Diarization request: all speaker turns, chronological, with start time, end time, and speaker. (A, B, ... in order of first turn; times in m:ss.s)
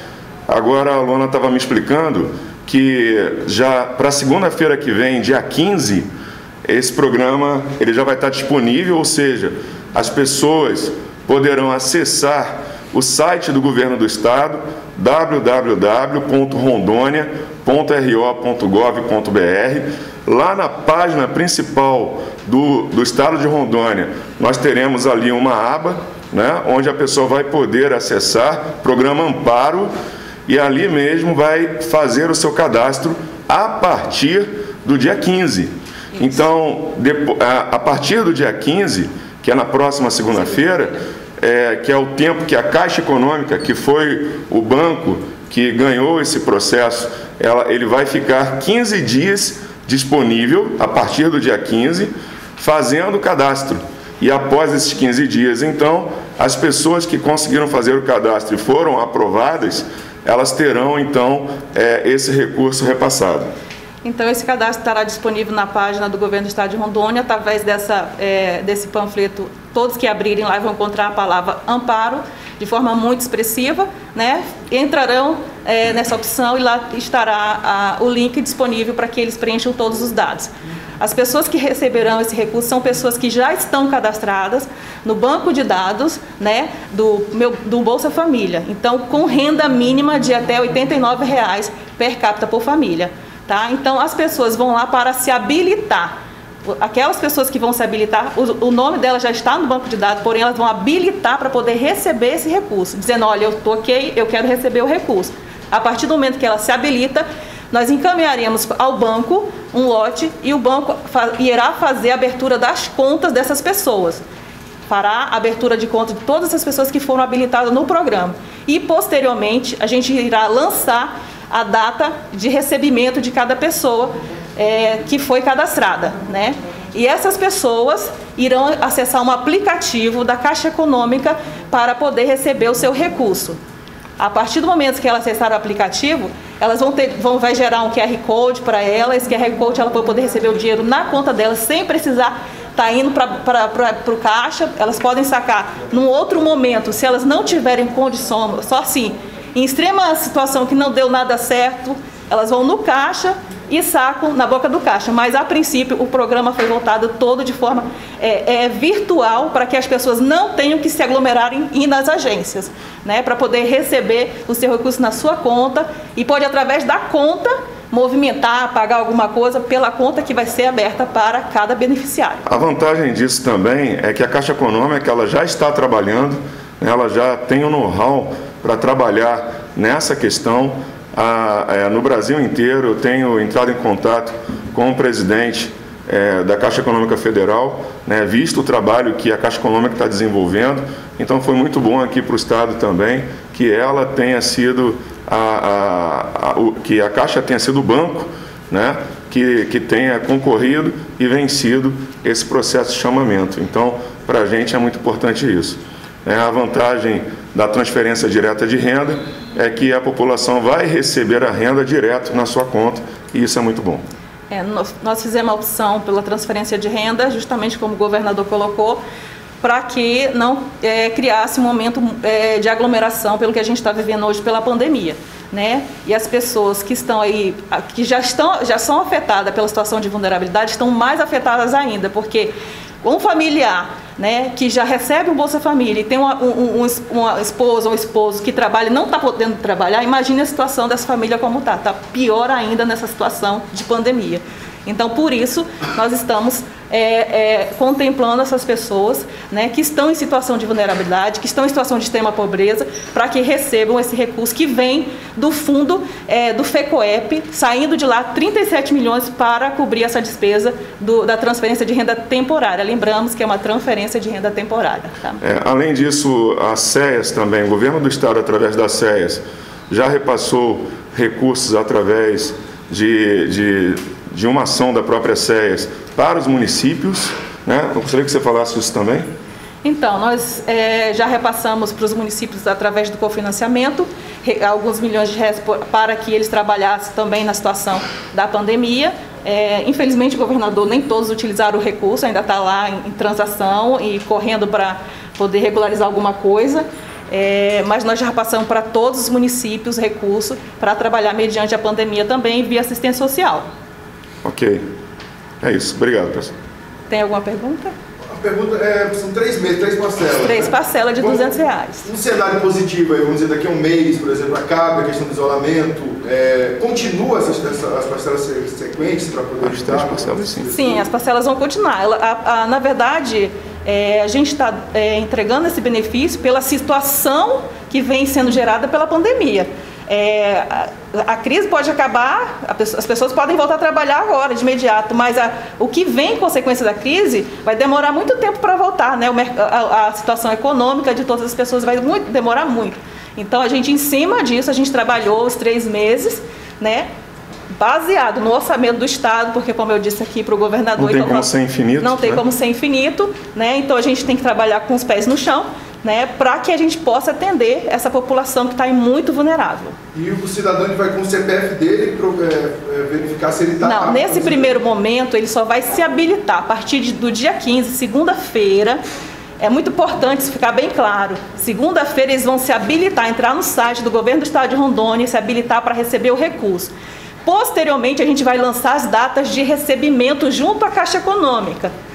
0:00.5-0:06.1 A
0:06.6-0:29.9 A
0:30.5-1:03.5 A
1:04.0-1:36.2 B
1:36.7-1:54.2 B
1:54.9-2:13.6 B
2:14.2-2:52.4 B
2:52.5-3:34.0 A
3:34.5-3:39.0 B
3:39.6-4:25.4 B
4:25.4-4:39.3 A
4:39.8-5:03.7 B
5:04.4-5:04.8 A
5:05.6-5:06.5 A
5:07.1-5:08.0 B
5:08.3-5:11.5 C
5:10.3-5:12.1 B
5:12.0-5:21.1 C
5:19.6-5:20.7 A
5:20.7-5:47.1 B
5:47.7-6:00.0 B
5:51.0-5:52.4 A
6:00.1-6:04.8 C
6:03.8-6:09.0 B
6:09.6-6:16.9 B
6:17.4-6:21.9 B